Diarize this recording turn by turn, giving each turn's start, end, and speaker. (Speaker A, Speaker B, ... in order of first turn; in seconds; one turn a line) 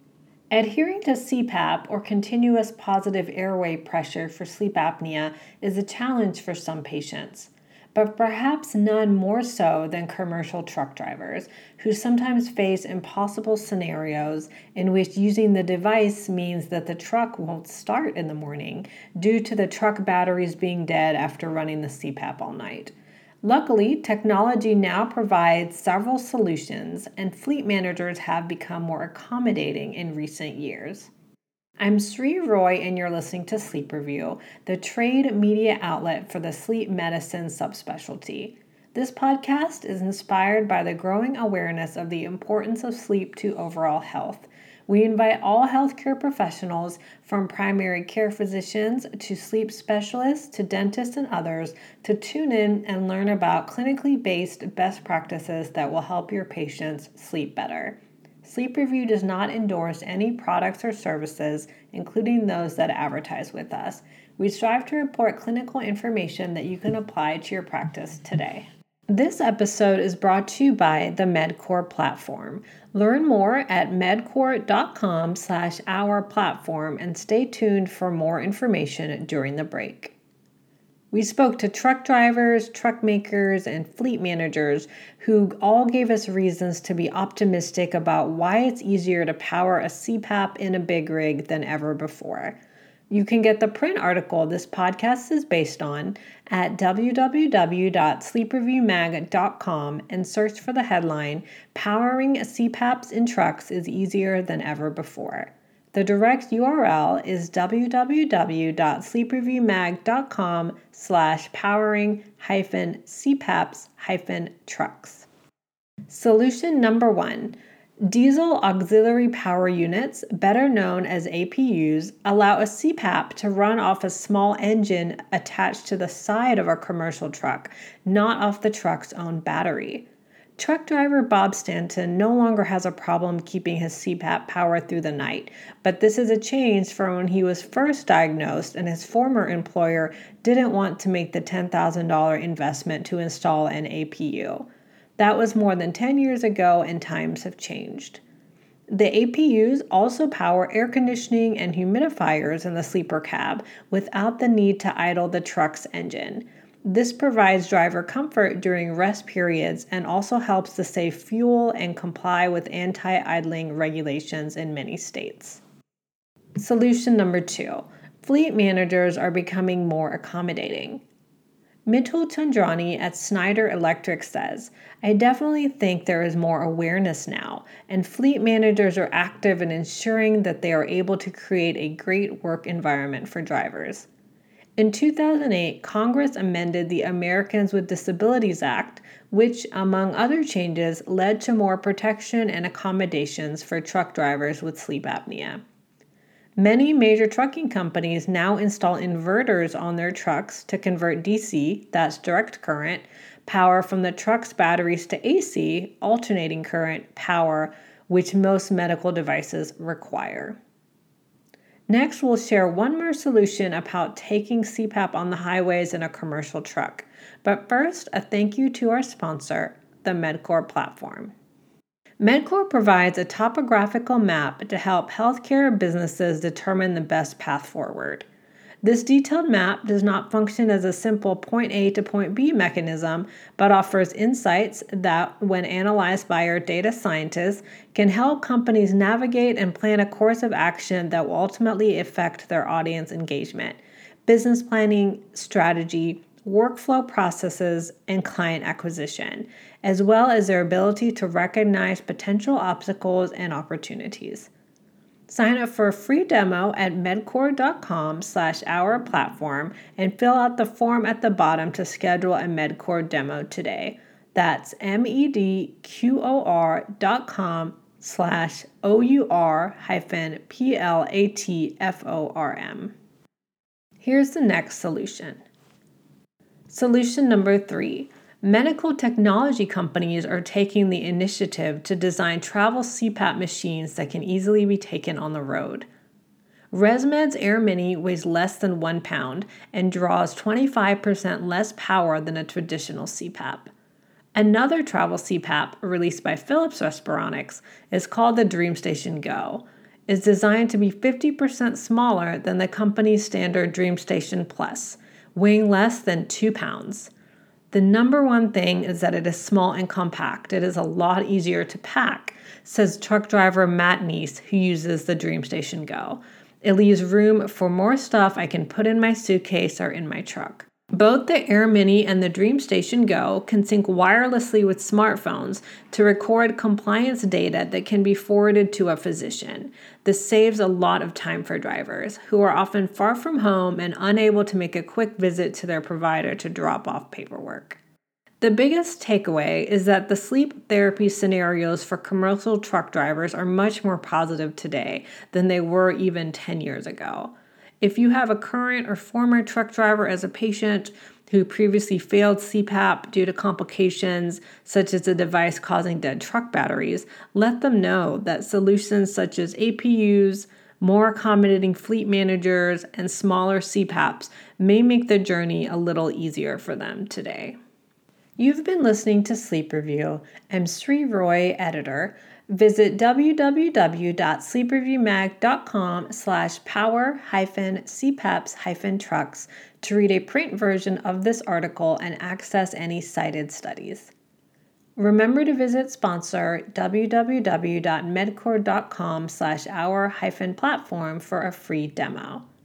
Speaker A: 0.5-31.1
Speaker A: 31.8-80.1
Speaker A: 81.1-92.6
Speaker A: 93.1-115.3
Speaker A: 116.1-130.1
Speaker A: 130.6-144.7
Speaker A: 145.2-148.2
Speaker A: 148.9-165.6
Speaker A: 166.6-171.0
Speaker A: 171.8-184.1
Speaker A: 184.8-195.6
Speaker A: 196.6-210.6
Speaker A: 211.9-221.3
Speaker A: 222.2-228.2
Speaker A: 228.8-254.5
Speaker A: 255.3-272.9
Speaker A: 274.0-275.4
Speaker A: 276.7-285.9
Speaker A: 286.7-293.7
Speaker A: 294.4-307.1
Speaker A: 307.7-337.8
Speaker A: 338.4-367.6
Speaker A: 368.4-384.1
Speaker A: 385.0-392.5